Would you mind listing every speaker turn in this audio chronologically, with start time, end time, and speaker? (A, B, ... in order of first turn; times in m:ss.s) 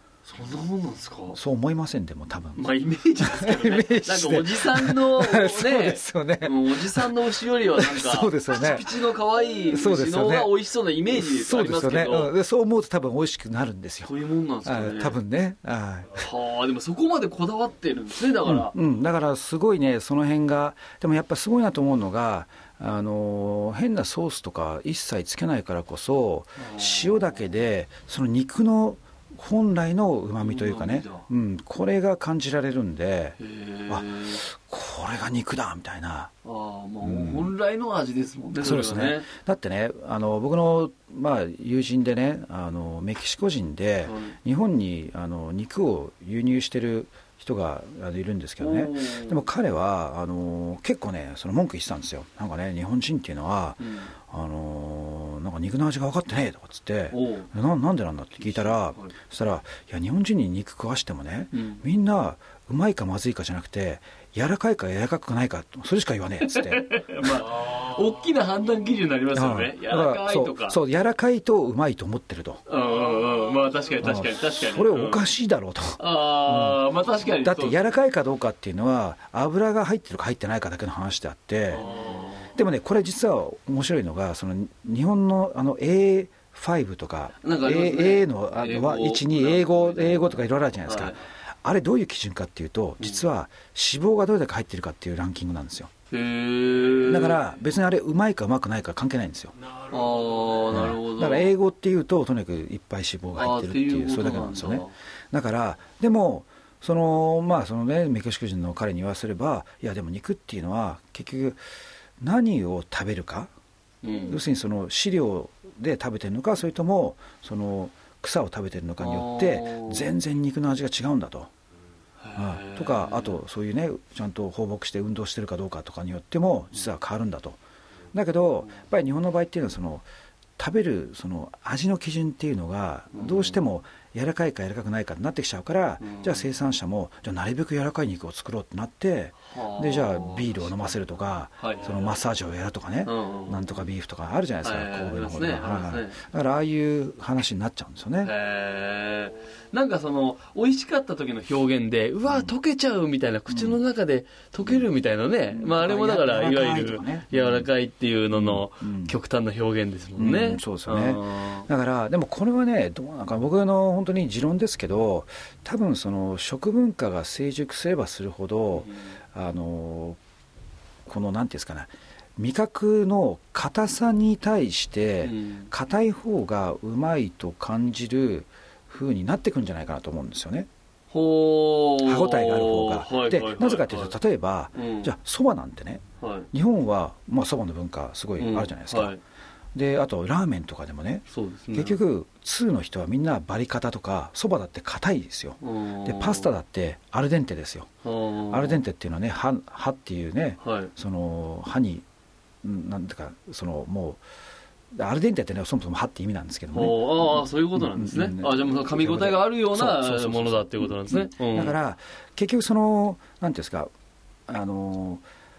0:00.2-0:01.4 A
0:01.3-0:10.5 B
0:02.6-0:12.3 A
0:11.1-0:14.1 B
0:14.0-0:15.2 A
0:14.6-0:16.3 B
0:16.2-0:18.7 A
0:18.4-0:36.3 B
0:26.6-0:27.5 A
0:30.4-0:31.3 A
0:33.4-0:34.4 A
0:36.4-0:39.3 A
0:37.0-0:37.5 B
0:38.6-1:07.4 B
0:44.0-0:44.3 A
0:48.6-0:49.5 A
0:53.8-0:54.1 A
0:57.1-0:57.5 A
0:58.4-0:59.1 A
1:01.5-1:01.8 A
1:06.4-1:10.8 A
1:09.3-1:12.6 B
1:12.7-1:15.2 A
1:14.0-1:21.8 B
1:16.0-1:17.9 A
1:21.7-1:22.5 A
1:22.5-1:35.9 B
1:27.4-1:31.2 A
1:36.1-1:37.4 A
1:37.0-1:39.5 B
1:39.9-1:41.5 A
1:40.7-1:51.6 B
1:43.4-1:44.9 A
1:52.2-1:53.5 B
1:54.0-1:54.4 A
1:54.2-2:01.5 B
1:59.0-2:00.1 A
2:02.2-2:03.4 A
2:02.4-2:07.6 B
2:08.1-2:10.0 B
2:10.6-2:28.3 B
2:13.1-2:13.6 A
2:16.0-2:16.5 A
2:19.5-2:21.0 A
2:21.6-2:22.2 A
2:23.0-2:23.8 A
2:24.6-2:26.2 A
2:28.2-2:41.7 A
2:33.5-2:33.8 B
2:35.5-2:37.7 B
2:38.3-2:39.2 B
2:40.2-2:50.2 B
2:48.8-2:49.1 A
2:51.1-3:00.7 B
2:55.2-2:55.7 A
3:01.1-3:04.1 A
3:02.0-3:09.1 B
3:04.8-3:05.1 A
3:06.2-3:06.5 A
3:08.4-3:09.2 A
3:09.7-3:17.9 B
3:11.3-3:12.0 A
3:15.6-3:16.5 A
3:18.0-3:18.8 A
3:18.5-3:22.0 B
3:20.6-3:20.9 A
3:22.6-3:24.2 B
3:24.9-3:33.9 B
3:26.7-3:31.8 A
3:34.5-3:35.2 B